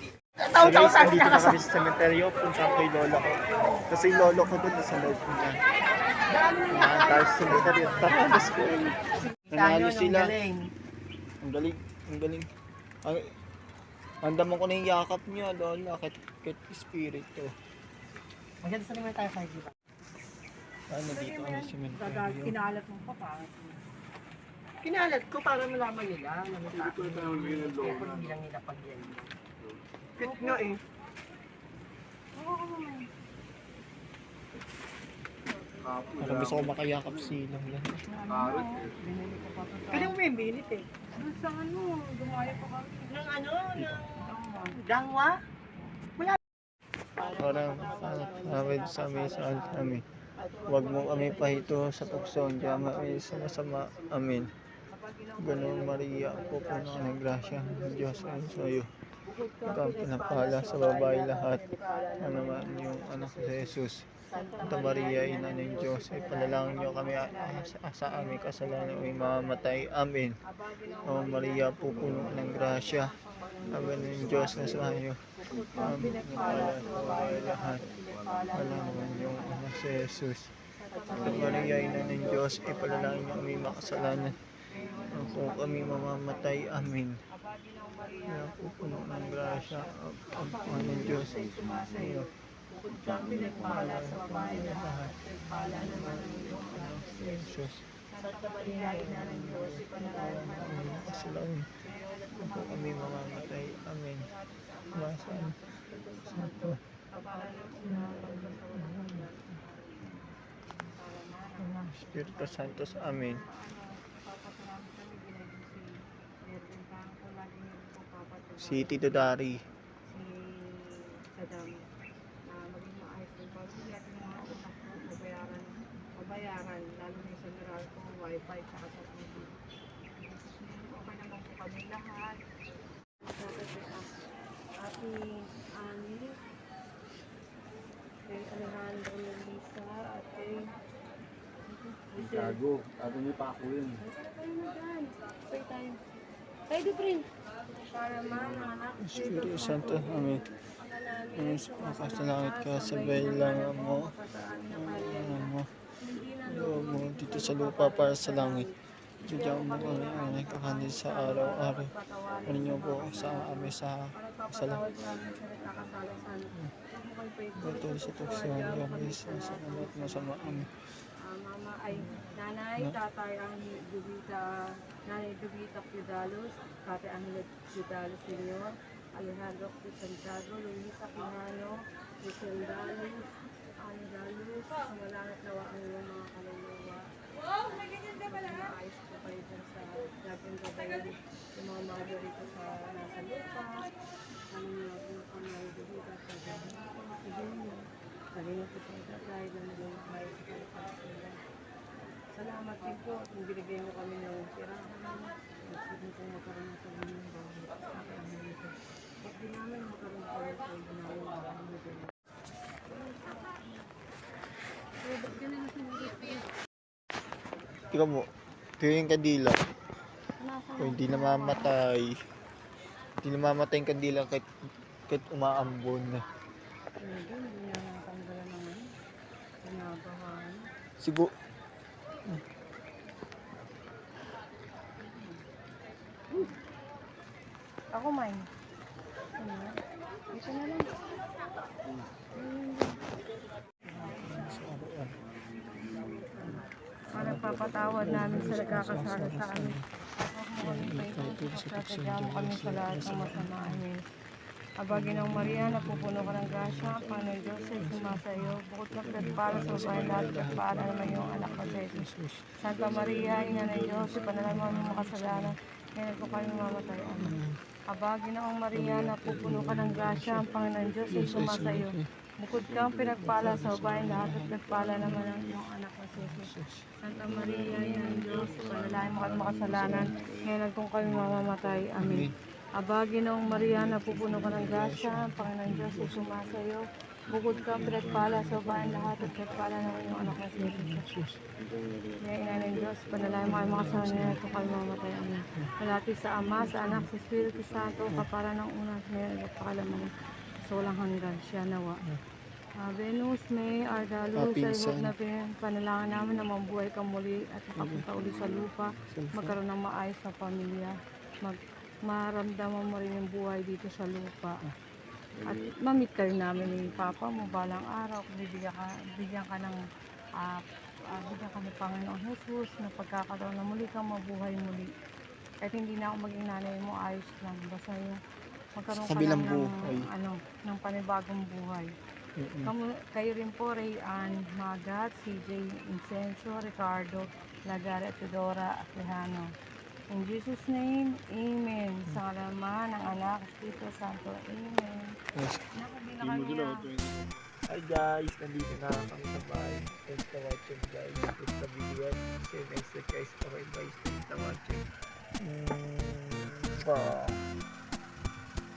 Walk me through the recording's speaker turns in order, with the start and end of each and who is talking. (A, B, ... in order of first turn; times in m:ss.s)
0:00.4-0:01.6 A
0:00.5-0:05.6 B
0:06.4-0:07.2 A
0:06.7-0:10.4 B
0:09.4-0:10.7 A
0:11.4-0:12.5 B
0:14.2-0:17.5 B
0:18.6-0:19.7 A
0:20.9-0:22.5 B
0:21.1-0:23.8 C
0:24.8-0:29.3 A
0:26.8-0:28.4 D
0:30.2-0:30.7 C
0:30.2-0:30.8 A
0:32.3-0:33.1 C
0:35.9-0:36.6 D
0:36.2-0:38.0 B
0:38.0-0:40.2 C
0:39.9-0:40.9 A
0:41.1-0:43.4 C
0:43.1-0:44.0 A
0:43.7-0:44.0 B
0:44.0-0:44.8 C
0:44.7-0:45.4 A
0:47.2-0:48.5 C
0:47.2-0:50.0 B
0:50.6-0:54.5 B
0:55.0-0:58.8 C
0:55.4-0:58.9 B
0:59.3-1:03.3 C
0:59.6-1:01.6 B
1:02.2-1:04.1 B
1:04.3-1:09.8 C
1:04.6-1:10.4 B
1:10.4-1:14.9 C
1:11.0-1:13.1 B
1:13.7-1:17.9 B
1:15.5-1:19.6 C
1:18.5-1:20.5 B
1:20.8-1:26.7 C
1:21.1-1:24.4 B
1:25.1-1:27.2 B
1:27.3-1:30.0 C
1:28.2-1:32.3 B
1:30.7-1:32.3 C
1:32.8-1:43.6 C
1:33.2-1:37.8 B
1:38.6-1:41.7 B
1:42.4-1:44.3 B
1:44.2-1:50.2 C
1:44.9-1:45.6 B
1:46.3-1:46.8 B
1:47.8-1:49.2 B
1:50.9-1:55.9 C
1:51.6-1:53.4 B
1:56.4-1:59.3 C
1:58.6-1:59.6 B
2:00.1-2:01.8 C
2:02.5-2:09.6 C
2:10.1-2:12.4 C
2:13.2-2:14.2 C
2:14.8-2:16.4 C
2:18.2-2:20.7 C
2:21.7-2:22.6 C
2:22.3-2:23.9 D
2:23.8-2:26.0 C
2:26.7-3:07.0 C
2:29.0-2:30.4 B
2:31.3-2:34.1 B
2:34.7-2:35.7 B
2:36.4-2:38.7 B
2:39.2-2:41.9 B
2:42.5-2:44.9 B
2:47.6-2:50.7 B
2:51.9-2:53.0 B
3:07.6-3:13.9 C
3:14.5-3:21.4 C
3:22.3-3:32.1 C
3:32.9-3:33.8 C
3:35.0-3:36.5 C
3:37.9-3:38.3 B
3:38.8-3:39.6 B
3:40.4-3:41.7 C
3:40.8-3:42.2 B
3:43.2-3:44.5 B
3:45.1-3:46.2 B
3:47.0-3:48.9 C
3:49.6-3:50.7 C
3:51.0-3:51.3 B
3:55.0-3:55.4 C
3:56.3-3:56.6 C
3:57.9-3:58.5 C
3:59.4-3:59.7 C
4:00.3-4:00.9 C
4:02.3-4:03.1 C
4:03.9-4:04.6 C
4:04.0-4:05.2 B
4:05.9-4:14.0 C
4:07.1-4:09.9 B
4:10.6-4:13.8 B
4:14.8-4:22.1 C
4:14.9-4:17.0 B
4:17.8-4:18.4 B
4:19.2-4:22.6 B
4:22.6-4:51.1 C
4:23.3-4:25.5 B
4:27.2-4:27.6 B
4:28.7-4:30.4 B
4:31.1-4:32.1 B
4:33.2-4:35.4 B
4:36.2-4:36.9 B
4:41.0-4:42.3 B
4:43.5-4:46.1 B
4:47.9-4:49.4 B
4:50.2-4:51.4 B
4:52.1-5:02.0 C
4:53.5-4:54.4 B
4:56.6-4:57.1 B
5:02.8-5:14.6 C
5:04.3-5:05.1 B
5:07.8-5:08.1 B
5:09.0-5:09.6 B
5:15.4-5:19.8 C
5:20.4-5:24.9 C
5:25.6-5:28.2 C
5:28.8-5:31.9 C
5:28.9-5:30.1 B
5:32.4-5:32.7 B
5:32.6-5:39.5 C
5:40.1-5:45.2 C
5:45.3-5:45.7 B
5:45.7-5:47.0 C
5:47.7-5:54.9 B
5:55.4-5:57.4 B